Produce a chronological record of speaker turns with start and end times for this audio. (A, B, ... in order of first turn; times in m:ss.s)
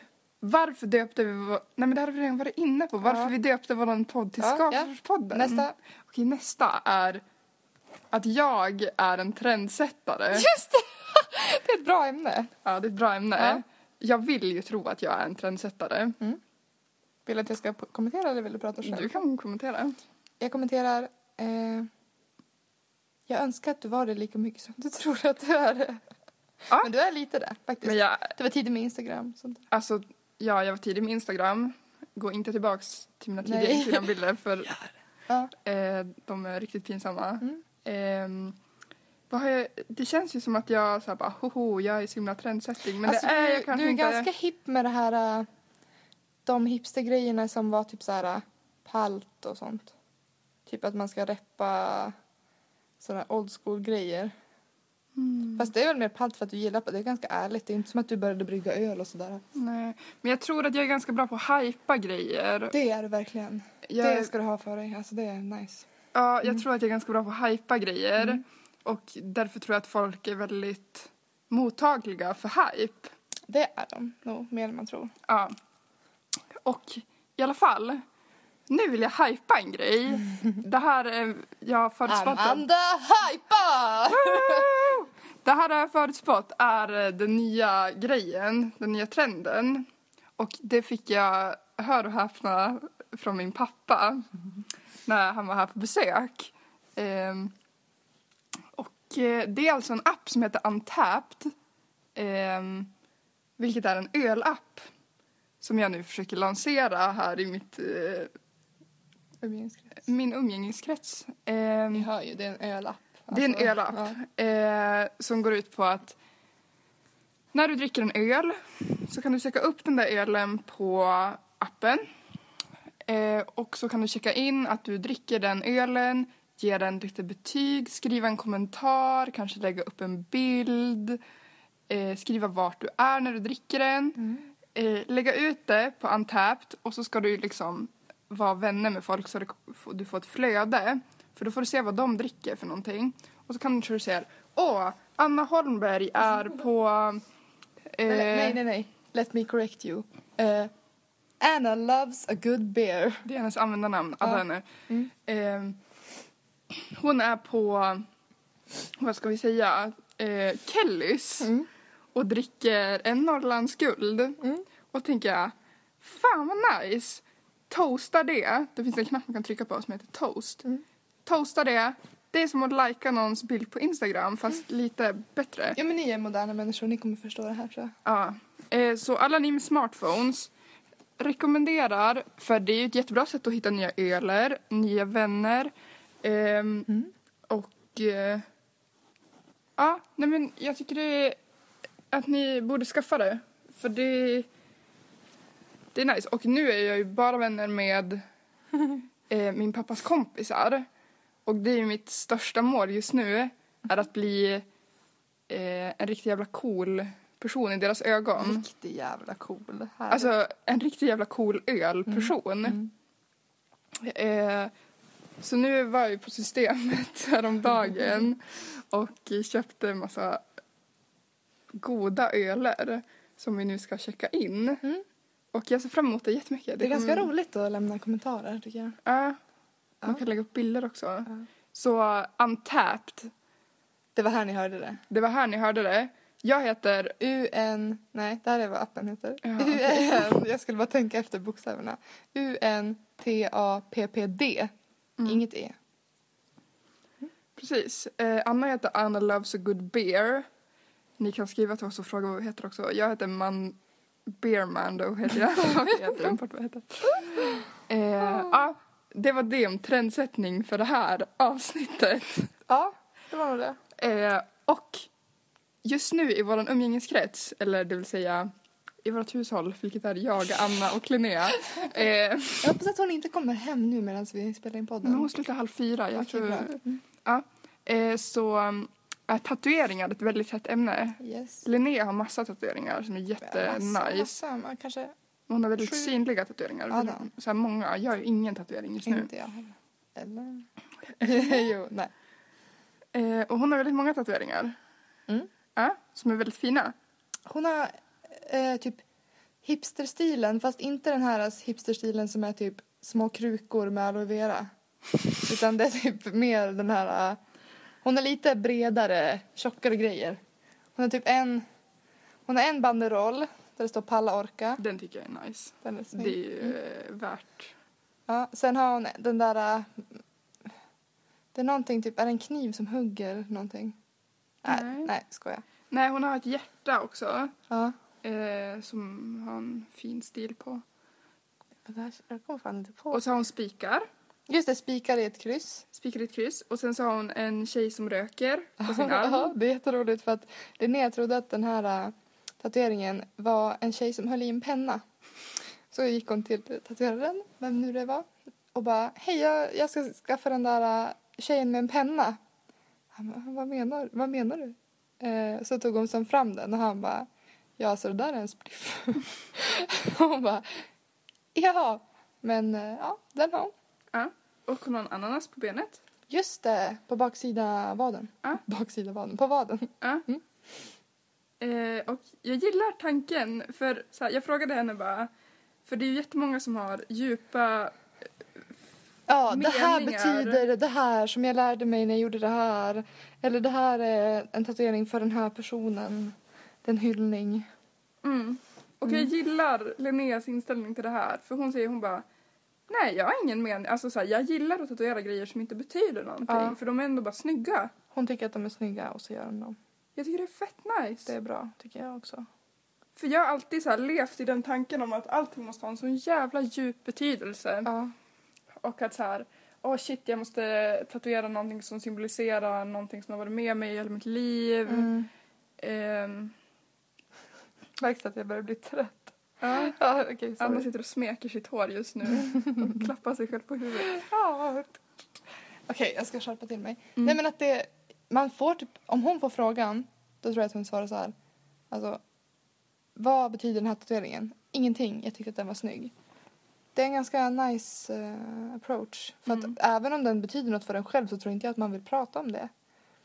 0:00.4-0:07.2 A
0:03.1-0:03.3 B
0:04.4-0:05.7 B
0:08.1-0:10.5 A
0:10.3-0:12.5 B
0:12.6-0:16.2 A
0:13.4-0:13.6 B
0:17.3-0:19.2 B
0:18.8-0:20.0 A
0:20.4-0:21.9 B
0:23.3-0:26.0 B
0:26.7-0:29.7 B
0:27.8-0:28.3 A
0:29.7-0:34.8 A
0:33.4-0:34.1 B
0:35.6-0:38.6 A
0:39.3-0:44.3 A
0:43.0-0:45.5 B
0:46.5-0:49.9 B
0:50.7-0:52.2 B
0:53.0-0:54.3 B
0:55.2-0:55.7 A
0:55.6-0:59.4 B
0:59.5-1:02.7 A
1:02.7-1:05.9 B
1:03.9-1:04.3 A
1:06.1-1:13.1 A
1:13.5-1:15.1 B
1:15.3-1:15.6 A
1:16.6-1:18.0 A
1:18.7-1:22.6 A
1:22.1-1:24.8 B
1:24.1-1:34.3 A
1:35.0-1:37.5 A
1:38.7-1:41.5 A
1:42.2-1:42.9 A
1:43.6-1:44.8 A
1:45.6-1:48.3 A
1:49.4-1:50.0 B
1:50.0-1:52.1 A
1:51.9-1:54.2 B
1:53.3-1:56.2 A
1:57.5-2:02.0 A
2:03.0-2:11.2 A
2:11.9-2:14.2 A
2:14.7-2:27.2 A
2:27.9-2:28.6 A
2:28.0-2:30.7 B
2:31.4-2:33.3 B
2:33.2-2:35.8 A
2:34.2-2:35.1 B
2:36.7-2:38.0 A
2:39.0-2:41.5 A
2:41.4-2:41.7 B
2:42.1-2:44.4 A
2:44.9-2:50.6 A
2:51.2-2:55.8 A
2:55.8-2:58.0 B
2:58.0-3:00.5 A
3:01.2-3:05.7 A
3:06.2-3:06.9 A
3:07.5-3:08.4 A
3:09.8-3:11.4 A
3:12.1-3:14.5 A
3:15.9-3:18.2 A
3:19.3-3:20.9 A
3:21.5-3:24.6 A
3:25.5-3:28.6 A
3:28.4-3:30.3 B
3:30.1-3:32.8 A
3:32.1-3:32.9 B
3:34.0-3:34.7 A
3:35.4-3:40.4 A
3:41.7-3:44.8 A
3:45.5-3:47.3 A
3:46.8-3:49.0 B
3:49.0-3:49.4 A
3:50.0-3:53.3 A
3:54.2-3:55.0 B
3:55.1-3:57.2 A
3:57.2-4:04.7 B
3:59.4-4:00.4 A
4:05.2-4:05.8 B
4:07.6-4:10.5 A
4:11.2-4:22.5 A
4:22.7-4:23.8 B
4:24.0-4:25.1 A
4:25.8-4:28.5 A
4:29.0-4:32.8 A
4:32.6-4:35.3 B
4:35.0-4:44.3 A
4:36.2-4:37.0 B
4:41.2-4:41.6 B
4:43.4-4:45.1 B
4:45.5-4:49.3 A
4:45.8-4:46.2 B
4:46.9-4:47.3 B
4:49.1-4:52.1 B
4:51.2-4:51.6 A
4:53.1-4:54.8 A
4:55.8-4:56.9 A
4:57.5-4:59.0 B
4:59.6-5:04.7 B
5:05.4-5:07.4 B
5:08.0-5:10.4 B
5:11.0-5:11.6 B
5:12.5-5:14.8 B
5:14.8-5:17.7 A
5:15.8-5:16.8 B
5:18.3-5:20.1 B
5:21.5-5:24.0 B
5:24.6-5:25.1 A
5:24.6-5:25.6 B
5:25.9-5:27.5 A
5:27.7-5:28.0 B
5:28.2-5:30.8 A
5:31.9-5:33.2 B
5:33.1-5:34.1 A
5:34.5-5:35.9 B
5:35.9-5:39.5 A
5:38.8-5:45.0 B
5:45.9-5:52.4 B
5:53.1-5:57.3 B
5:57.8-6:00.9 B
6:01.6-6:03.7 B
6:04.1-6:06.0 A
6:06.3-6:10.4 B
6:10.0-6:10.3 A
6:11.6-6:15.3 A
6:15.8-6:18.0 A
6:19.3-6:27.7 B
6:19.5-6:20.7 A
6:28.2-6:32.3 A
6:32.9-6:37.9 A
6:36.5-6:36.8 B
6:38.1-6:39.8 B
6:40.2-6:41.3 A
6:41.3-6:42.5 B
6:43.2-6:47.9 A
6:47.9-6:48.1 B
6:48.8-6:55.1 A
6:54.9-6:55.3 B
6:55.8-6:56.5 A
6:58.0-7:00.9 B
6:59.6-7:00.0 A
7:00.6-7:04.2 A
7:04.0-7:05.0 B
7:05.9-7:11.3 B
7:11.9-7:12.2 B
7:13.2-7:16.1 B
7:17.0-7:22.7 B